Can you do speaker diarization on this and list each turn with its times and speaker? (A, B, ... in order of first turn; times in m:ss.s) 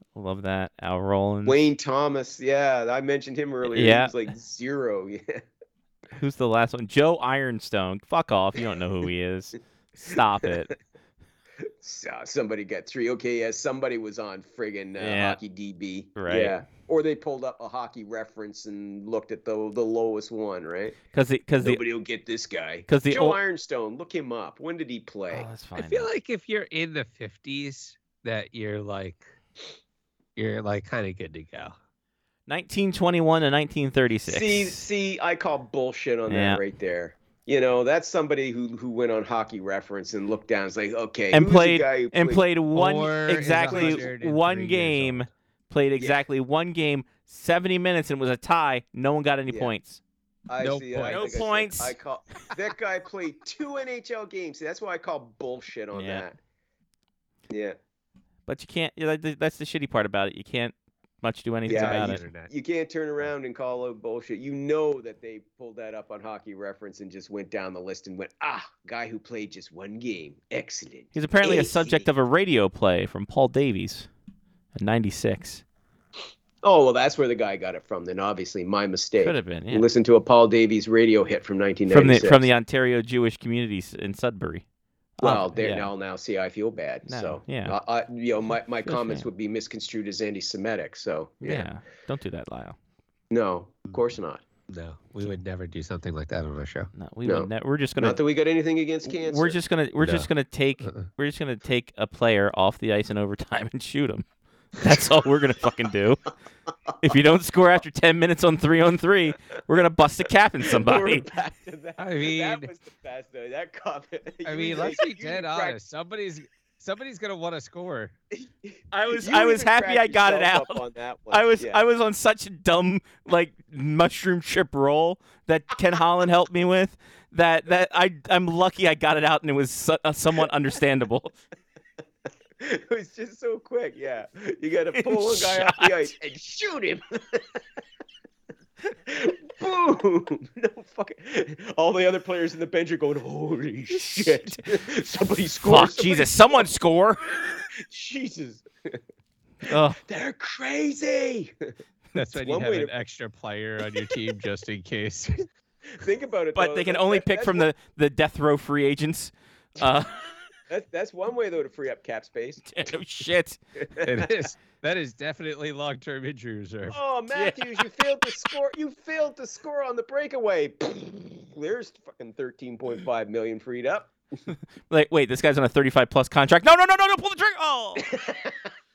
0:00.2-0:01.6 A
0:01.4-0:05.4 B
0:03.7-0:04.2 A
0:06.2-0:10.7 A
0:11.7-0:21.0 B
0:15.0-0:15.4 A
0:16.2-0:16.6 A
0:21.1-0:21.8 A
0:21.6-0:25.5 B
0:22.9-0:23.4 A
0:25.3-0:26.1 A
0:25.7-0:29.2 C
0:30.4-0:31.7 C
0:32.5-0:34.8 A
0:34.3-0:42.4 B
0:36.3-0:36.6 A
0:41.3-0:50.0 A
0:42.7-0:45.3 C
0:43.5-0:44.1 B
0:50.5-0:56.4 B
0:50.6-0:51.4 C
0:51.0-0:52.0 A
0:55.9-0:56.2 A
0:57.5-0:57.8 B
0:58.5-1:02.2 A
1:01.6-1:12.0 B
1:01.7-1:02.5 C
1:11.1-1:14.1 A
1:14.7-1:15.6 A
1:16.6-1:22.5 B
1:19.2-1:19.9 A
1:21.9-1:24.6 A
1:25.2-1:25.9 A
1:25.2-1:31.4 B
1:27.1-1:27.7 A
1:28.8-1:29.3 A
1:31.4-1:32.8 A
1:31.4-1:31.7 C
1:33.3-1:34.4 B
1:34.7-1:36.9 C
1:36.9-1:38.2 A
1:37.2-1:39.6 B
1:39.1-1:44.2 A
1:40.0-1:40.3 C
1:44.8-1:46.2 A
1:47.0-1:51.2 A
1:50.7-1:55.8 B
1:52.0-1:52.7 C
1:54.4-1:58.2 C
1:58.5-2:01.8 B
1:58.9-2:11.4 A
2:12.6-2:17.4 B
2:14.9-2:16.1 A
2:19.1-2:26.6 B
2:23.9-2:24.6 A
2:25.6-2:27.3 A
2:27.3-2:29.0 B
2:29.6-2:30.0 A
2:30.0-2:31.7 B
2:32.2-2:35.5 C
2:32.4-2:32.9 B
2:35.9-2:37.7 B
2:36.6-2:40.4 A
2:40.7-2:42.7 B
2:42.6-2:43.6 A
2:43.8-2:44.3 B
2:44.0-2:47.0 C
2:46.9-2:54.1 B
2:47.3-2:47.8 A
2:54.9-2:58.1 A
2:58.0-2:58.7 B